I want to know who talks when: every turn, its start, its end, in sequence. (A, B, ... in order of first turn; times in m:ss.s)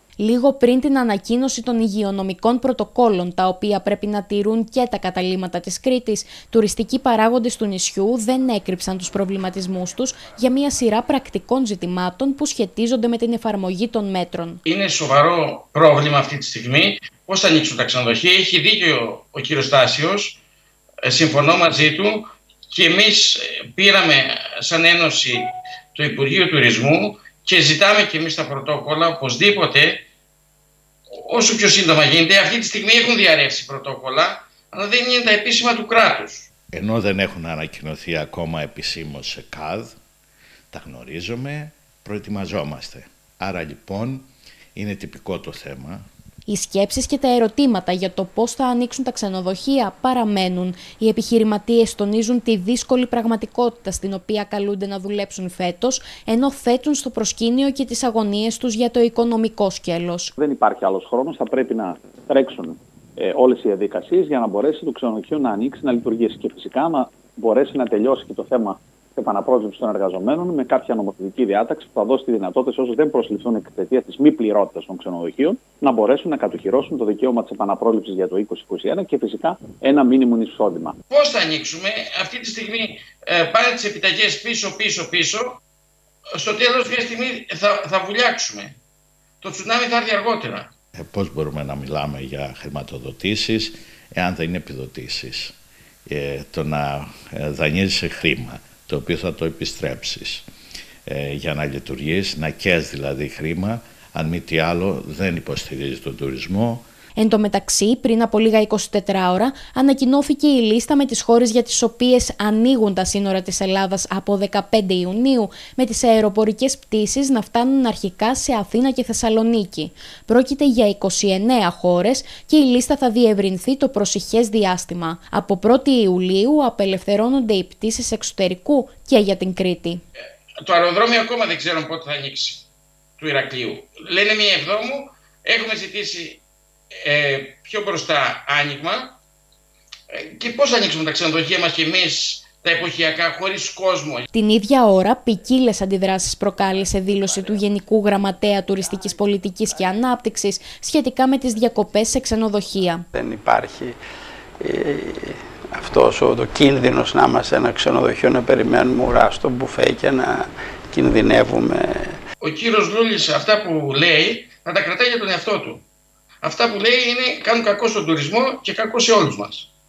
0:00.2-0:14.6 A
0:14.6-0:20.4 B
0:21.0-0:30.0 B
0:31.1-0:36.5 B
0:36.7-0:40.0 C
0:40.7-0:46.1 C
0:46.5-1:00.3 A
1:00.4-1:21.0 D
1:21.1-1:25.6 B
1:26.3-1:28.7 B
1:29.4-1:30.7 B
1:31.0-1:35.5 C
1:36.1-1:40.4 C
1:41.0-1:46.8 C
1:47.2-2:10.0 A
2:10.6-2:12.7 B
2:13.2-2:16.4 B
2:17.0-2:19.2 B
2:20.1-2:24.3 B
2:24.3-2:33.0 A
2:33.1-2:34.0 E
2:34.6-2:42.2 E
2:42.4-2:45.8 B
2:46.4-2:49.7 B